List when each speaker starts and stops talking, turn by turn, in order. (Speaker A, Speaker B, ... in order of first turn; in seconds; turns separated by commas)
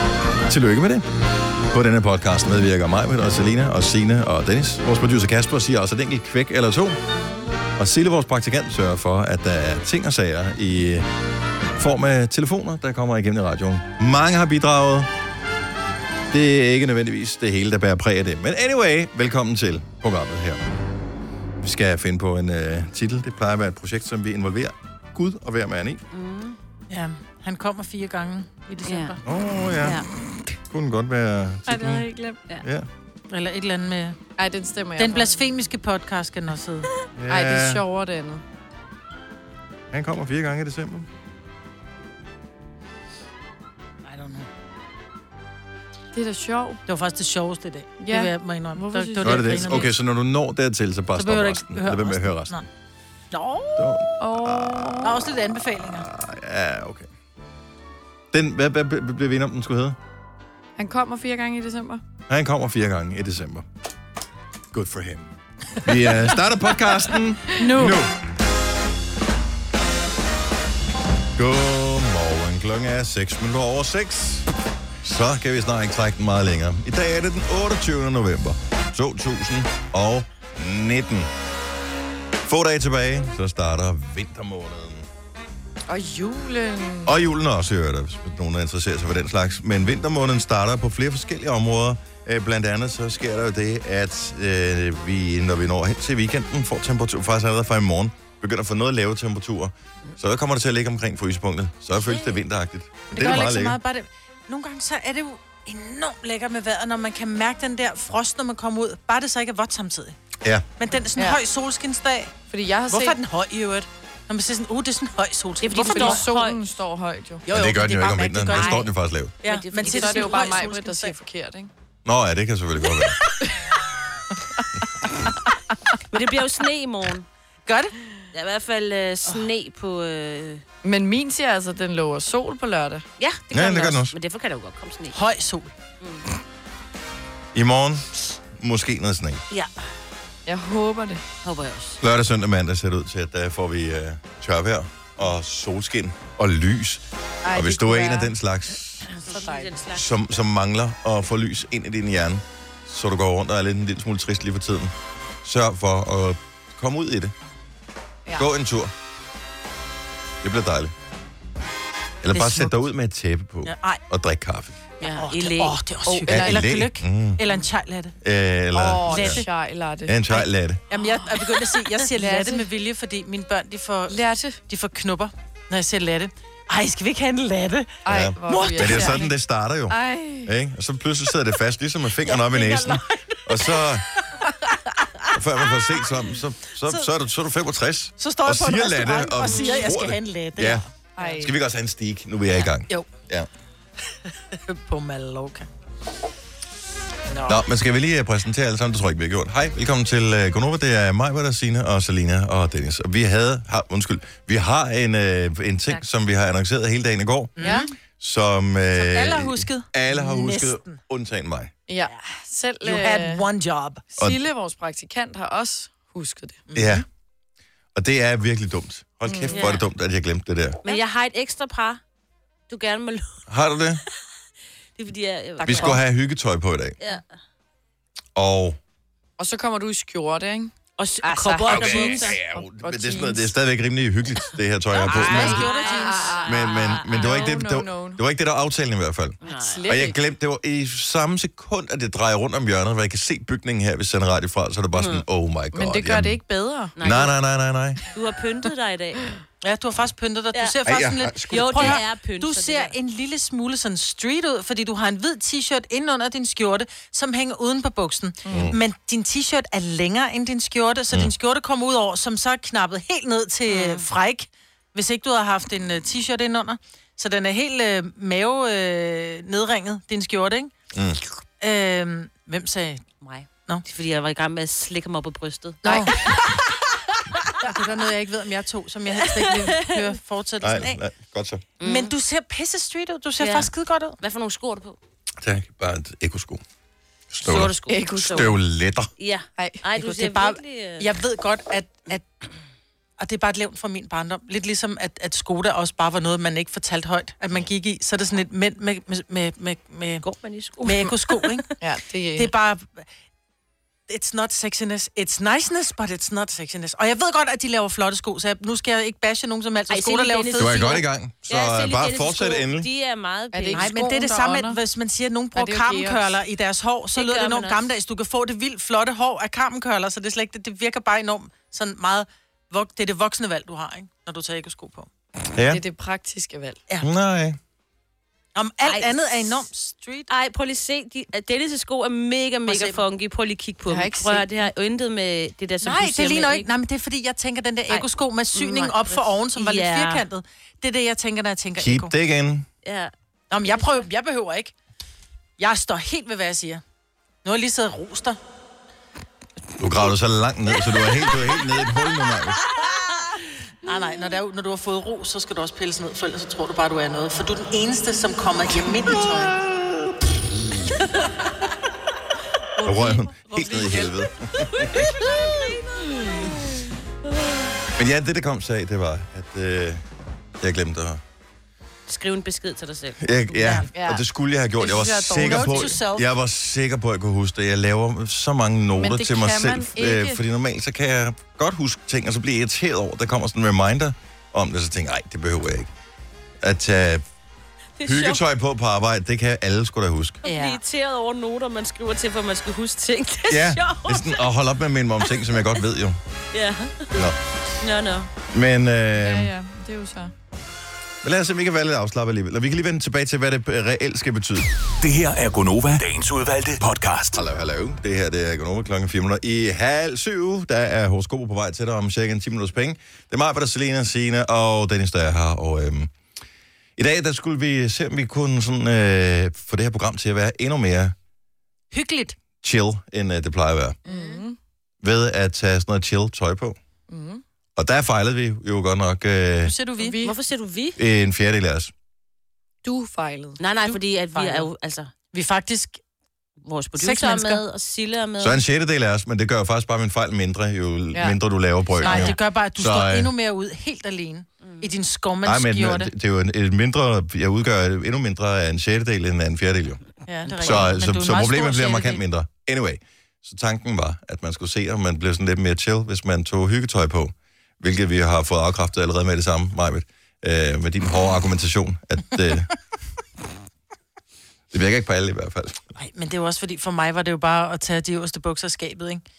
Speaker A: 0.5-1.1, Speaker A: 1.7-7.0, Speaker A: 7.8-11.1, Speaker A: 11.8-15.1, Speaker A: 16.3-20.7, Speaker A: 21.6-26.0, Speaker B: 26.1-26.6, Speaker C: 26.9-29.2, Speaker B: 28.8-29.2, Speaker A: 29.2-30.0, Speaker A: 30.6-32.1, Speaker D: 31.7-32.4, Speaker A: 32.6-32.9, Speaker C: 33.3-34.2, Speaker D: 34.4-35.3, Speaker C: 35.0-36.9, Speaker A: 37.2-37.8, Speaker D: 37.3-38.4, Speaker A: 39.9-41.1, Speaker C: 44.0-44.5, Speaker D: 46.1-46.8, Speaker C: 46.9-49.9, Speaker D: 48.0-49.9, Speaker A: 49.2-52.6, Speaker C: 51.2-52.7, Speaker C: 53.3-53.9, Speaker A: 53.8-57.1, Speaker D: 54.2-55.2, Speaker C: 55.0-56.1, Speaker A: 58.3-60.0, Speaker D: 60.8-62.0, Speaker A: 62.3-63.7, Speaker A: 64.7-65.3, Speaker A: 65.8-68.1, Speaker D: 67.6-68.0, Speaker C: 67.6-68.0, Speaker A: 71.4-74.5, Speaker A: 75.0-81.3, Speaker A: 82.5-85.1, Speaker D: 85.9-87.2, Speaker A: 87.1-103.8, Speaker C: 103.1-110.2, Speaker A: 110.4-110.7, Speaker C: 110.8-112.3, Speaker D: 112.5-113.2, Speaker C: 112.9-116.3, Speaker B: 115.6-116.6, Speaker D: 115.7-117.4, Speaker C: 117.5-118.9, Speaker A: 117.5-119.4, Speaker B: 118.5-118.9, Speaker C: 119.4-121.2, Speaker B: 119.4-120.5, Speaker D: 119.8-121.7, Speaker A: 122.0-123.2, Speaker B: 126.1-127.3, Speaker C: 127.7-128.0, Speaker B: 128.3-130.6, Speaker D: 130.8-133.1, Speaker B: 133.2-135.2, Speaker A: 133.5-134.1, Speaker C: 135.1-135.7, Speaker B: 136.0-136.3, Speaker A: 137.5-139.4, Speaker D: 140.5-141.2, Speaker B: 141.4-142.0, Speaker A: 142.0-149.1, Speaker D: 147.4-148.3, Speaker B: 149.1-150.1, Speaker D: 149.2-149.7, Speaker A: 149.9-157.3, Speaker A: 158.4-158.9, Speaker A: 160.4-160.9, Speaker A: 162.2-164.8, Speaker C: 162.3-162.8, Speaker C: 163.6-164.0, Speaker B: 165.0-165.8, Speaker C: 165.1-168.1, Speaker D: 166.1-166.8, Speaker A: 166.3-167.4, Speaker A: 168.2-169.4, Speaker D: 168.7-171.4, Speaker C: 169.1-169.5, Speaker A: 170.1-170.8, Speaker C: 170.9-177.9, Speaker D: 172.1-172.7, Speaker D: 174.1-174.6, Speaker D: 178.1-179.3, Speaker A: 178.1-184.1, Speaker C: 178.5-179.2, Speaker D: 179.9-180.5, Speaker C: 182.2-184.0, Speaker A: 185.3-190.8, Speaker C: 186.8-187.1, Speaker C: 188.2-191.4, Speaker D: 191.2-191.6, Speaker A: 191.4-193.5, Speaker C: 194.5-195.7, Speaker C: 197.3-197.6, Speaker A: 197.5-207.6, Speaker C: 207.6-207.9, Speaker D: 207.6-207.9, Speaker A: 208.2-211.7, Speaker C: 208.9-211.0, Speaker D: 211.9-213.4, Speaker C: 212.8-214.0, Speaker D: 214.1-216.6, Speaker C: 216.7-217.1, Speaker A: 216.7-217.1, Speaker A: 217.9-220.8, Speaker D: 219.2-219.7, Speaker B: 219.5-219.9, Speaker B: 220.8-222.0, Speaker B: 222.7-223.4, Speaker A: 223.5-224.0, Speaker B: 225.0-226.0, Speaker D: 225.6-226.0, Speaker A: 225.6-227.0, Speaker A: 228.4-228.8, Speaker D: 229.4-233.5, Speaker B: 231.0-232.4, Speaker A: 231.7-235.7, Speaker B: 235.0-237.5, Speaker D: 235.1-238.2, Speaker C: 235.1-236.4, Speaker A: 236.5-246.4, Speaker B: 239.4-239.9, Speaker D: 239.4-240.2, Speaker B: 244.9-245.2, Speaker D: 245.7-246.9, Speaker B: 247.0-247.3, Speaker A: 247.0-248.0, Speaker B: 248.1-249.2, Speaker C: 249.6-270.7, Speaker A: 250.8-252.0, Speaker B: 251.5-252.9, Speaker D: 258.5-258.7, Speaker A: 258.5-258.8, Speaker B: 263.7-264.1, Speaker A: 270.9-271.2, Speaker C: 271.6-273.1, Speaker B: 273.2-276.1, Speaker D: 275.8-276.6, Speaker C: 275.9-276.1, Speaker C: 277.6-281.0, Speaker B: 279.2-280.1, Speaker A: 280.6-281.6, Speaker B: 281.8-282.1, Speaker C: 281.8-284.2, Speaker B: 283.4-283.7, Speaker B: 284.2-285.0, Speaker A: 285.4-286.6, Speaker A: 287.3-289.1, Speaker B: 287.4-288.5, Speaker D: 287.9-288.6, Speaker B: 289.2-291.1, Speaker D: 289.6-289.9, Speaker C: 290.0-292.3, Speaker C: 293.2-300.2, Speaker B: 300.2-301.6, Speaker C: 300.8-301.7, Speaker D: 301.8-302.5, Speaker C: 302.4-303.1, Speaker C: 304.1-311.0, Speaker B: 309.9-313.9, Speaker A: 310.6-312.9, Speaker D: 313.5-314.8, Speaker C: 313.7-325.1, Speaker D: 315.6-316.4, Speaker B: 317.1-317.9, Speaker A: 325.6-325.8, Speaker D: 325.7-326.8, Speaker A: 327.0-327.6, Speaker C: 328.6-330.3, Speaker B: 328.9-329.6, Speaker B: 330.3-336.7, Speaker C: 332.7-333.0, Speaker D: 333.9-334.5, Speaker C: 335.8-342.1, Speaker B: 337.9-340.3, Speaker A: 341.8-342.7, Speaker B: 342.8-343.1, Speaker C: 343.5-344.7, Speaker B: 343.7-344.1, Speaker C: 345.6-346.8, Speaker C: 347.4-348.4, Speaker A: 349.8-352.6, Speaker C: 353.8-359.6, Speaker D: 362.8-364.3, Speaker A: 362.8-365.1, Speaker B: 364.8-365.8, Speaker A: 368.0-370.0, Speaker A: 370.6-371.2, Speaker B: 372.1-373.2, Speaker A: 373.2-385.9, Speaker D: 373.9-374.2, Speaker D: 374.8-376.0, Speaker C: 375.4-376.3, Speaker D: 379.0-380.4, Speaker A: 386.6-387.2, Speaker B: 388.0-388.4, Speaker A: 388.1-390.4, Speaker B: 390.4-394.5, Speaker C: 390.5-390.8, Speaker A: 393.5-396.2, Speaker B: 395.2-395.6, Speaker B: 396.5-397.3, Speaker B: 397.8-398.3, Speaker A: 398.5-399.5, Speaker D: 399.2-400.3, Speaker A: 401.2-404.7, Speaker E: 405.0-407.4, Speaker A: 407.3-416.1, Speaker A: 417.0-421.1, Speaker C: 421.9-422.4, Speaker A: 422.6-424.0, Speaker D: 424.1-424.6, Speaker A: 425.0-426.8, Speaker D: 427.1-427.4, Speaker A: 427.8-429.8, Speaker C: 429.6-430.2, Speaker D: 430.0-430.4, Speaker B: 430.2-431.0, Speaker A: 431.0-431.9, Speaker D: 432.8-433.6, Speaker B: 433.6-435.1, Speaker C: 433.9-434.7, Speaker C: 435.3-436.0, Speaker B: 436.6-438.6, Speaker C: 437.0-437.6, Speaker A: 438.4-443.3, Speaker B: 442.0-442.4, Speaker C: 442.0-446.1, Speaker B: 444.6-444.9, Speaker A: 445.4-450.0, Speaker C: 450.3-452.2, Speaker A: 450.6-462.7, Speaker A: 464.7-465.8, Speaker C: 465.9-469.2